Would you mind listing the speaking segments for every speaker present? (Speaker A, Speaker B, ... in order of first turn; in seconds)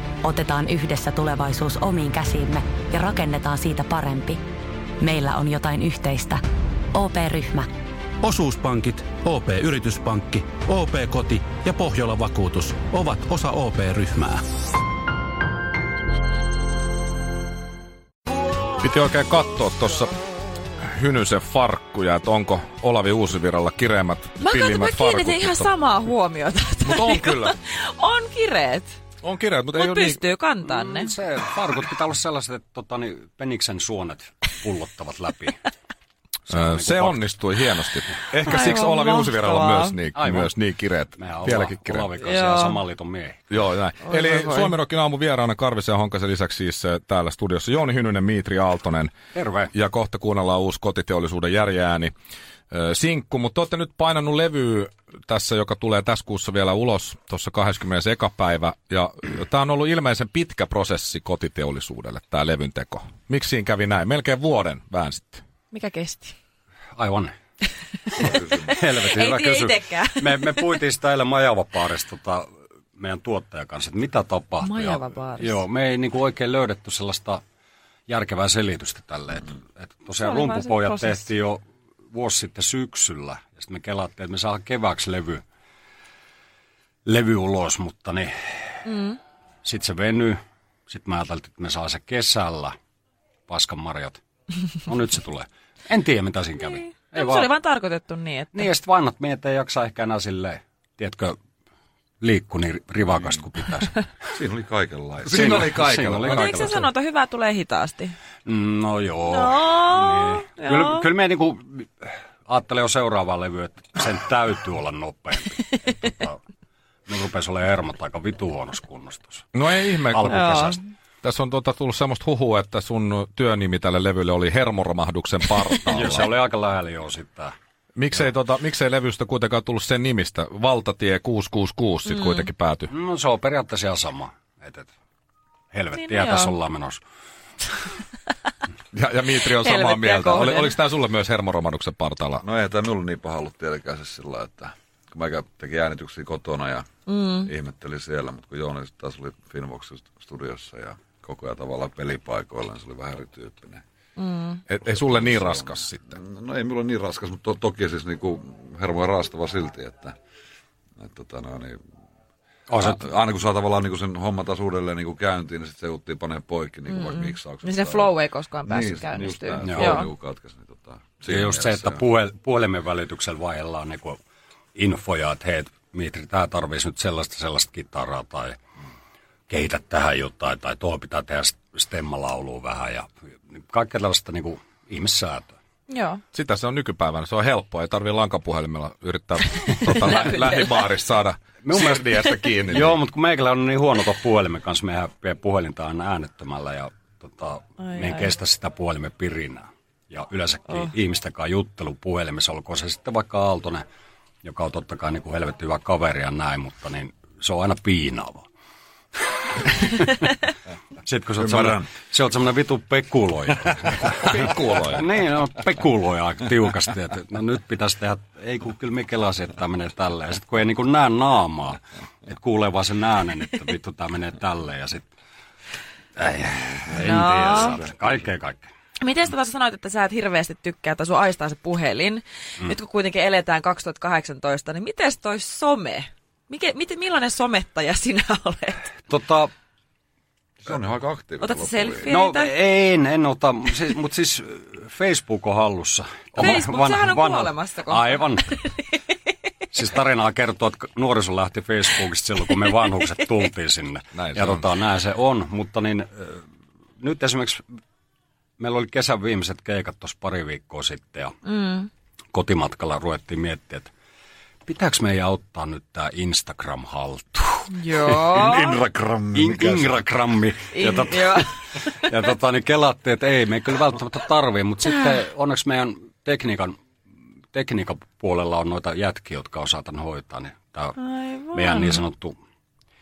Speaker A: 0.2-4.4, 5.0-6.4, 6.9-7.7
Speaker B: 8.2-14.4
Speaker C: 18.8-20.1, 20.8-25.7, 26.8-27.5, 29.2-30.2, 36.5-42.1, 43.5-49.1, 49.7-52.1, 52.7-65.4, 105.2-106.8, 119.5-126.3, 128.0-132.9, 138.9-142.4, 154.7-156.1, 186.3-193.0, 214.2-215.0, 254.1-254.6
Speaker D: 24.4-29.0, 29.7-31.1, 38.4-40.0, 42.2-42.8, 44.0-44.7, 65.7-66.3, 68.1-70.7, 74.6-75.6, 80.2-81.2, 88.8-89.2, 97.0-98.7, 106.2-108.1, 109.3-111.0, 120.3-120.8, 132.1-132.5, 135.9-136.5, 139.5-140.8, 147.1-147.5, 154.2-154.6, 166.9-170.1, 185.9-186.2, 190.2-190.6, 197.8-198.3, 226.9-227.8, 229.0-238.8, 241.4-242.5, 246.3-249.0, 261.4-261.9, 267.7-268.8, 270.7-271.9, 281.0-282.0
Speaker E: 30.6-35.6, 36.5-37.3, 40.1-40.5, 41.2-43.6, 49.3-49.7, 66.9-67.3, 68.2-77.4, 78.1-85.4, 87.0-88.5, 89.6-92.7, 93.5-94.2, 94.8-97.5, 98.5-101.4, 102.2-104.0, 105.3-106.8, 108.4-116.4, 117.1-119.5, 120.1-120.8, 125.9-127.5, 132.9-134.9, 135.7-137.0, 162.7-163.0, 169.6-170.0, 171.2-174.2, 174.7-178.6, 179.5-185.5, 191.6-192.1, 192.7-203.8, 204.4-208.5, 209.6-210.4, 211.0-225.1, 226.2-228.7, 239.1-239.5, 242.1-248.6, 249.7-256.5, 257.0-257.6, 258.6-261.4, 262.3-263.9, 264.6-268.4, 269.3-276.8, 277.5-281.0, 281.5-282.3
Speaker F: 68.2-68.7, 104.3-106.5, 142.4-146.9, 147.4-153.8, 154.8-160.2, 161.0-161.8, 162.8-168.1, 168.6-172.0, 211.4-211.9, 240.6-242.1, 268.3-270.1